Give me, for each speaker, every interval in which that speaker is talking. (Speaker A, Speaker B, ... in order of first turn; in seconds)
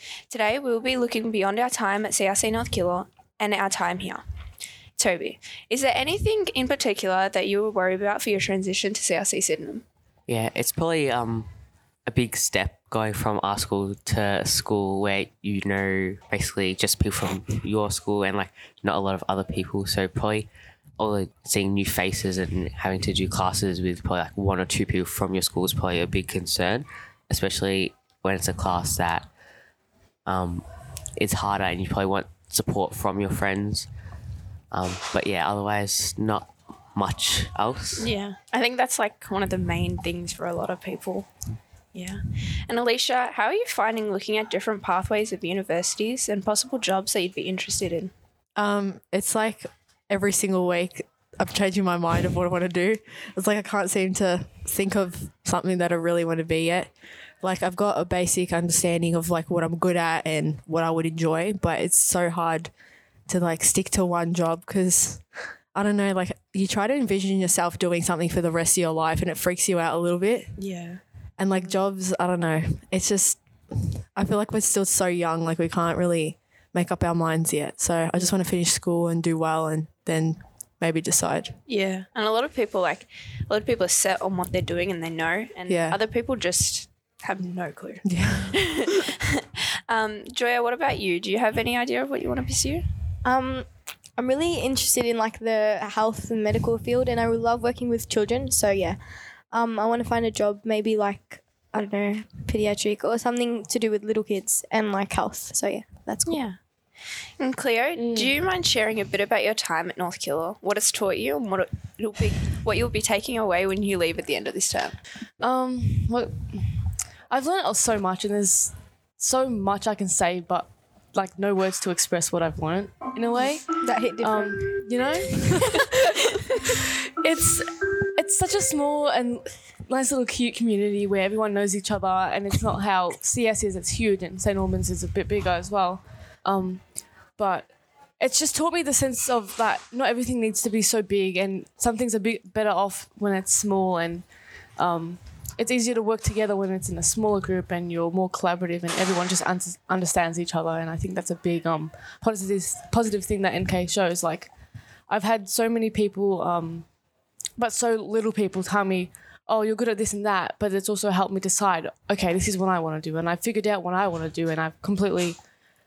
Speaker A: 0.3-4.2, 5.0-9.8, 38.0-41.3, 41.9-48.1, 70.6-71.0, 81.7-92.8, 106.2-106.5, 107.4-115.0
Speaker B: 10.3-11.5, 12.1-20.5, 21.0-29.3, 30.2-33.9, 34.7-38.1
Speaker C: 48.5-62.7, 63.3-70.5, 71.4-81.5, 85.7-86.0, 88.0-88.6
Speaker D: 93.2-99.0, 99.5-106.4, 123.8-124.8, 125.7-126.1
Speaker E: 108.0-108.3, 115.4-125.8, 126.6-136.8, 137.3-137.7, 138.2-144.2, 144.8-154.5, 155.1-156.8, 157.6-165.4